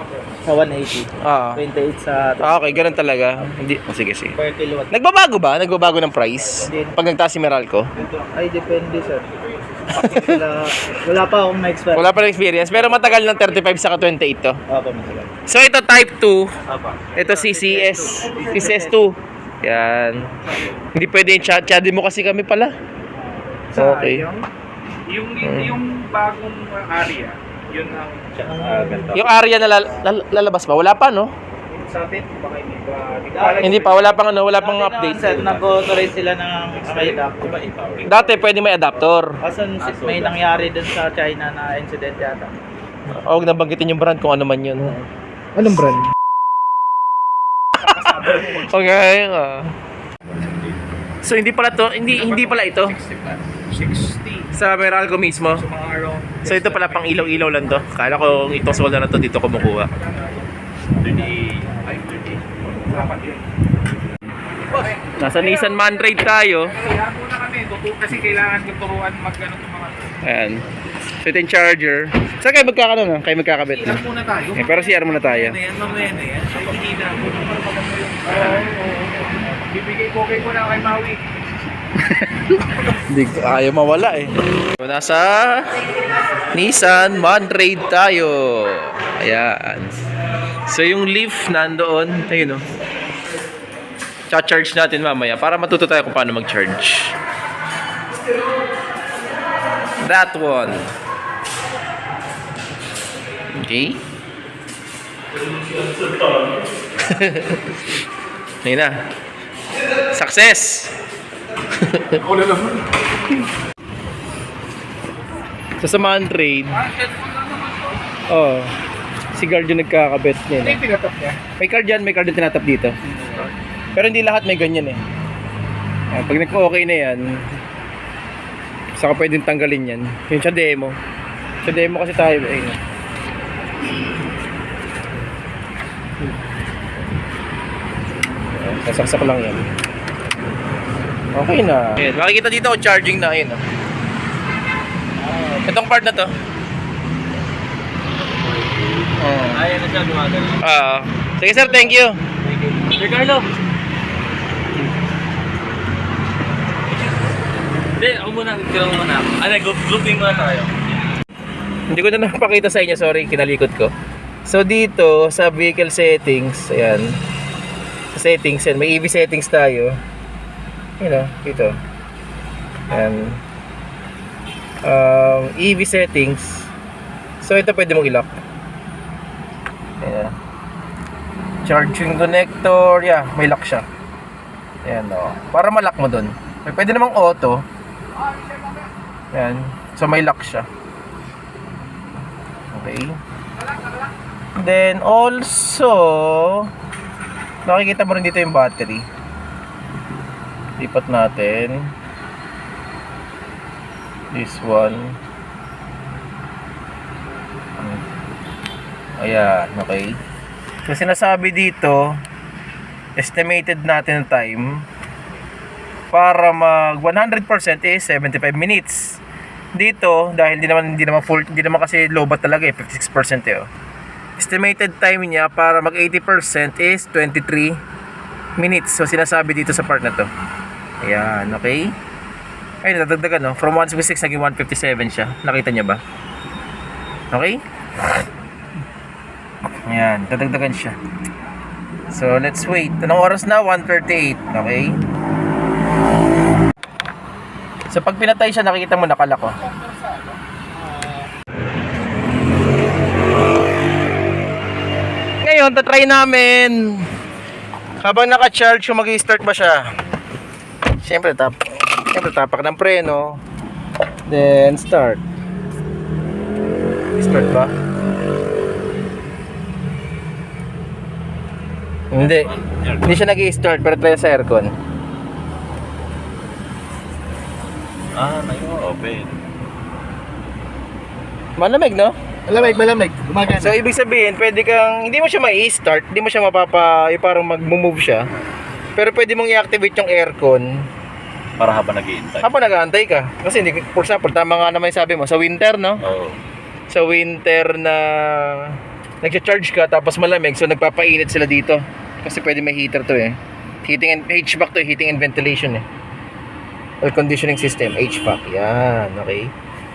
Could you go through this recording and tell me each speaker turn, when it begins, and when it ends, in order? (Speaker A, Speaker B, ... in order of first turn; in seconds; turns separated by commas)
Speaker A: 0.4-3.5, Speaker B: 1.2-1.6, Speaker B: 2.4-4.3, Speaker A: 4.3-4.9, Speaker B: 4.9-7.9, Speaker A: 6.5-7.0, Speaker A: 7.9-9.3, Speaker A: 9.9-13.6, Speaker B: 9.9-10.3, Speaker B: 11.9-14.6, Speaker A: 14.7-15.3, Speaker B: 15.5-16.5, Speaker C: 16.7-17.2, Speaker B: 17.1-20.3, Speaker D: 17.2-18.6, Speaker A: 17.6-19.0, Speaker D: 20.5-20.8, Speaker B: 20.9-22.7, Speaker A: 23.1-23.4, Speaker D: 23.7-24.4, Speaker B: 23.8-24.3, Speaker D: 25.1-28.6, Speaker B: 25.4-25.8, Speaker C: 28.3-29.6, Speaker A: 28.6-29.2, Speaker B: 29.1-31.3, Speaker D: 31.7-34.2, Speaker A: 33.3-34.0, Speaker B: 33.6-35.3, Speaker A: 34.5-37.7, Speaker C: 35.2-38.4, Speaker B: 38.0-39.4, Speaker A: 39.4-42.5, Speaker C: 39.8-40.8, Speaker B: 43.1-45.0, Speaker B: 45.5-46.1, Speaker D: 47.9-48.5, Speaker B: 48.3-49.7, Speaker C: 50.4-50.8, Speaker B: 51.2-52.9, Speaker D: 52.0-54.5, Speaker B: 54.5-55.6, Speaker D: 55.5-60.5, Speaker B: 56.4-59.9, Speaker C: 61.0-63.1, Speaker D: 61.1-61.4, Speaker D: 62.8-63.5, Speaker D: 64.7-70.2, Speaker B: 65.2-66.8, Speaker B: 70.2-70.6, Speaker B: 71.2-74.0, Speaker D: 73.7-81.3, Speaker B: 74.5-75.6, Speaker B: 78.3-78.7, Speaker B: 82.1-85.8, Speaker B: 86.5-90.0, Speaker B: 90.7-92.6, Speaker B: 94.3-97.1, Speaker B: 100.0-100.9, Speaker B: 103.6-104.0, Speaker B: 107.0-107.7, Speaker B: 108.6-108.9, Speaker B: 110.1-111.0, Speaker B: 111.8-112.2, Speaker D: 112.2-112.9, Speaker B: 115.8-116.8, Speaker D: 116.7-118.0, Speaker B: 118.3-118.7, Speaker B: 119.3-120.8, Speaker D: 120.6-121.4, Speaker B: 121.6-122.9, Speaker B: 123.9-125.0, Speaker B: 126.1-127.4, Speaker B: 129.0-130.9, Speaker B: 131.6-132.8, Speaker B: 138.5-139.7, Speaker B: 141.3-143.6, Speaker A: 145.2-145.7, Speaker B: 145.7-146.3, Speaker B: 149.2-149.7, Speaker E: 149.5-150.6, Speaker B: 150.6-152.2, Speaker A: 151.5-153.2, Speaker E: 152.9-153.5, Speaker E: 158.0-160.7, Speaker B: 161.9-163.9, Speaker B: 164.4-167.2, Speaker B: 168.1-170.0, Speaker B: 171.0-171.7, Speaker B: 172.9-173.4, Speaker B: 174.8-176.7, Speaker B: 177.4-178.4, Speaker B: 180.0-180.3, Speaker B: 181.6-183.8, Speaker B: 184.8-187.6, Speaker B: 189.3-190.7, Speaker B: 192.7-193.2, Speaker B: 194.6-196.7, Speaker B: 197.7-199.1, Speaker B: 200.8-201.9, Speaker B: 204.3-205.2, Speaker B: 207.8-208.0, Speaker B: 209.2-210.2, Speaker B: 210.8-212.2, Speaker B: 213.2-214.8, Speaker B: 216.1-219.2, Speaker B: 219.7-223.7, Speaker B: 224.4-227.8, Speaker B: 228.6-230.3, Speaker B: 231.0-231.9, Speaker B: 232.8-236.0, Speaker B: 237.3-237.6, Speaker B: 239.8-240.9, Speaker B: 242.1-245.0, Speaker B: 247.9-249.5, Speaker B: 255.4-257.1, Speaker B: 258.0-259.8, Speaker B: 261.0-263.4, Speaker B: 264.3-265.2, Speaker B: 267.2-267.7, Speaker B: 272.1-274.7, Speaker C: 272.2-273.2, Speaker C: 278.1-279.4, Speaker B: 281.6-282.1, Speaker A: 282.5-283.8, Speaker B: 283.5-288.3, Speaker B: 288.9-290.9, Speaker C: 291.6-292.5, Speaker B: 292.4-296.0, Speaker C: 296.0-296.4, Speaker B: 296.9-305.8, Speaker B: 307.0-309.5